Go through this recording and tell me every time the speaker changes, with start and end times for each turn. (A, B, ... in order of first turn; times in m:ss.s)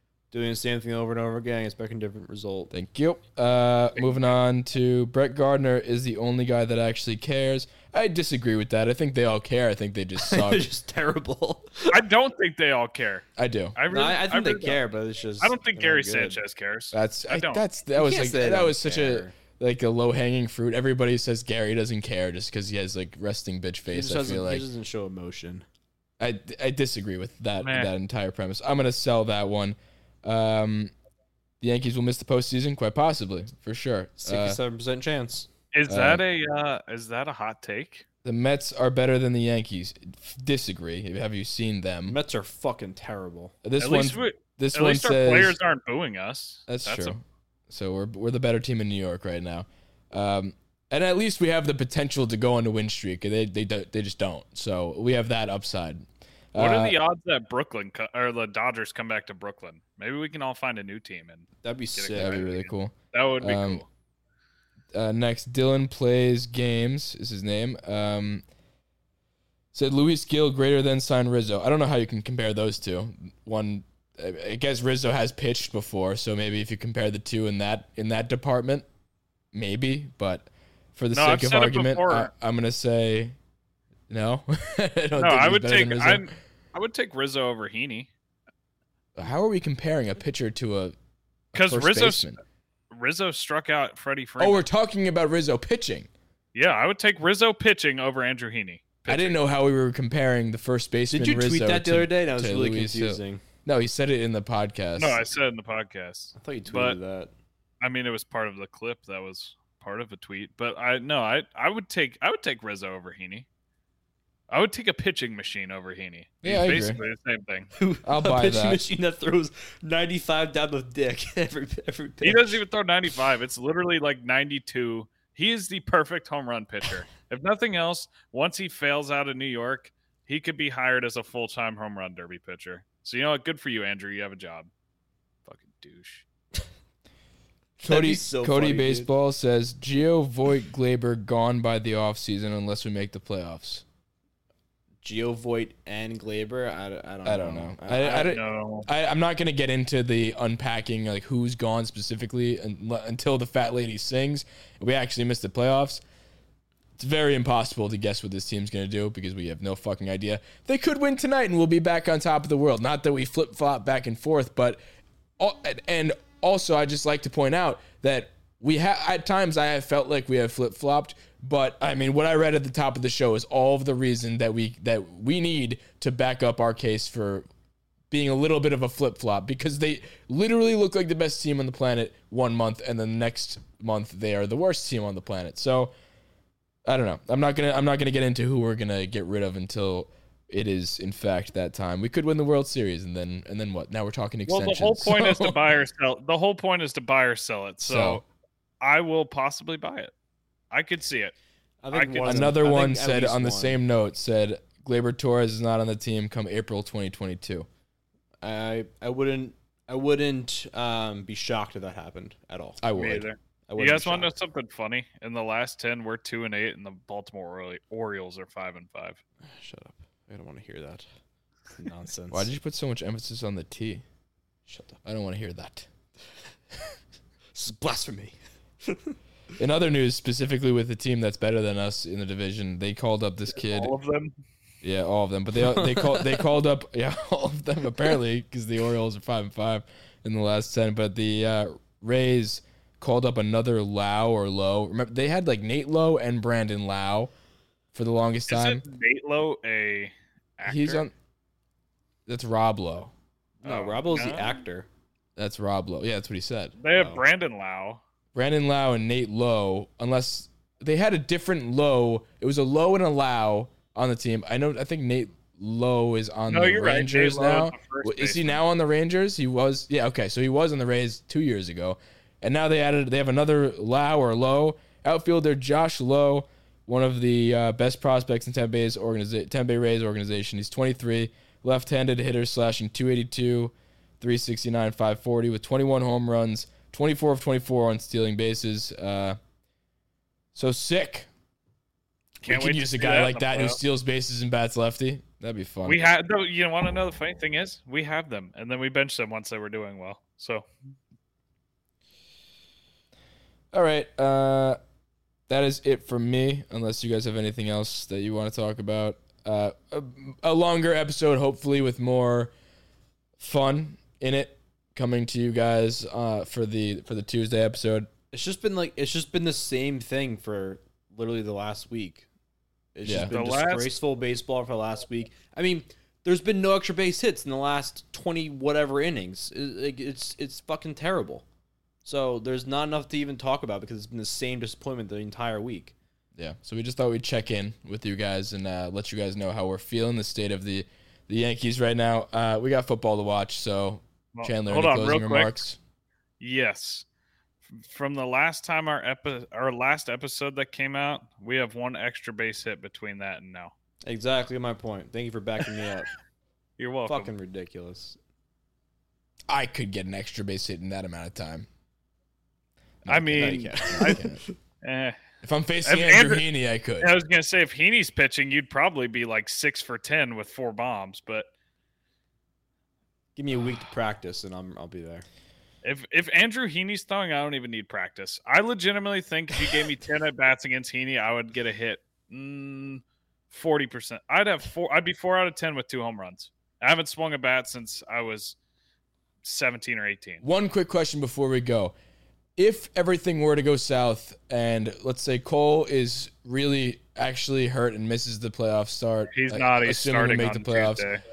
0:00.3-0:02.7 A
0:02.7-0:10.6 B
0:04.0-0:04.3 C
0:10.2-0:12.0 A
0:11.9-0:14.8 C
0:13.4-0:13.8 B
0:13.9-0:16.4 A
0:15.4-0:17.6 C
0:16.9-0:24.6 B
0:17.9-0:19.3 A
0:23.9-0:25.6 A
0:26.2-0:30.9 B
0:27.6-0:27.9 C
0:31.6-0:34.6 B
0:34.2-0:35.5 A
0:35.7-0:38.0 C
0:35.9-0:36.2 B
0:38.2-0:42.2 B
0:42.0-0:43.5 A
0:43.6-0:45.6 B
0:43.8-0:47.2 C
0:46.7-0:57.0 B
0:56.5-1:03.8 C
1:01.6-1:02.4 A
1:02.1-1:03.8 B
1:04.9-1:08.4 B
1:09.7-1:18.9 B
1:19.5-1:23.4 B
1:21.1-1:22.3 C
1:24.1-1:26.3 B
1:25.2-1:28.1 C
1:29.2-1:31.0 B
1:31.5-1:32.4 B
1:31.5-1:32.4 C
1:32.9-1:34.6 C
1:34.4-1:36.1 B
1:36.5-1:39.4 C
1:39.1-1:45.2 B
1:41.1-1:43.4 A
1:45.0-1:47.0 C
1:46.4-1:47.3 A
1:47.8-1:53.5 C
1:54.5-1:57.7 C
1:56.4-1:57.0 B
1:57.8-2:02.6 A
1:58.0-1:58.8 B
2:02.2-2:14.7 C
2:15.4-2:16.2 C
2:17.8-2:23.8 B
2:17.8-2:19.1 A
2:25.0-2:28.3 A
2:27.2-2:36.0 B
2:28.1-2:28.9 C
2:37.0-2:44.8 B
2:45.4-2:57.4 B
2:58.1-3:05.9 B
3:06.8-3:15.8 B
3:14.5-3:18.2 C
3:17.8-3:18.2 B
3:18.8-3:20.1 C
3:20.7-3:21.3 C
3:21.8-3:23.8 A
3:21.9-3:22.5 C
3:22.2-3:27.7 B
3:28.4-3:32.8 A
3:32.8-3:33.3 B
3:33.0-3:39.2 C
3:33.7-3:34.3 A
3:39.4-3:41.1 A
3:41.7-3:42.5 A
3:42.3-3:44.0 B
3:44.7-3:45.0 A
3:45.0-3:45.9 B
3:47.5-3:49.1 A
3:49.6-3:53.9 B
3:53.6-3:54.3 C
3:54.8-4:07.3 B
3:55.6-3:56.4 A
4:07.9-4:08.8 B
4:08.5-4:11.1 C
4:10.6-4:11.1 B
4:12.2-4:13.1 B
4:13.6-4:14.9 A
4:13.6-4:14.6 C
4:15.4-4:16.8 B
4:16.8-4:18.0 C
4:16.9-4:17.2 A
4:18.3-4:49.4 B
4:26.5-4:28.6 C
4:50.5-4:51.3 B
4:52.4-4:53.8 C
4:52.4-4:56.0 B
4:55.8-5:00.7 C
5:03.7-5:04.8 B
5:05.5-5:12.5 B
5:13.4-5:18.1 B
5:18.3-5:22.2 A
5:22.9-5:31.4 A
5:23.0-5:23.3 B
5:23.3-5:23.9 C
5:32.0-5:35.9 A
5:36.4-5:45.8 B
5:44.3-5:45.5 C
5:46.4-5:47.0 C
5:47.7-5:53.7 C
5:54.0-5:56.1 A
5:56.8-5:57.3 C
5:57.0-5:58.2 A
5:59.5-6:01.7 B
6:03.0-6:04.4 B
6:03.1-6:04.2 C
6:03.4-6:04.4 A
6:04.8-6:05.2 C
6:05.4-6:07.1 B
6:05.8-6:06.4 C
6:07.0-6:11.5 C
6:13.4-6:15.2 A
6:15.8-6:28.6 C
6:29.4-6:30.4 C
6:30.4-6:31.9 B
6:32.6-6:41.0 B
6:39.3-6:41.2 C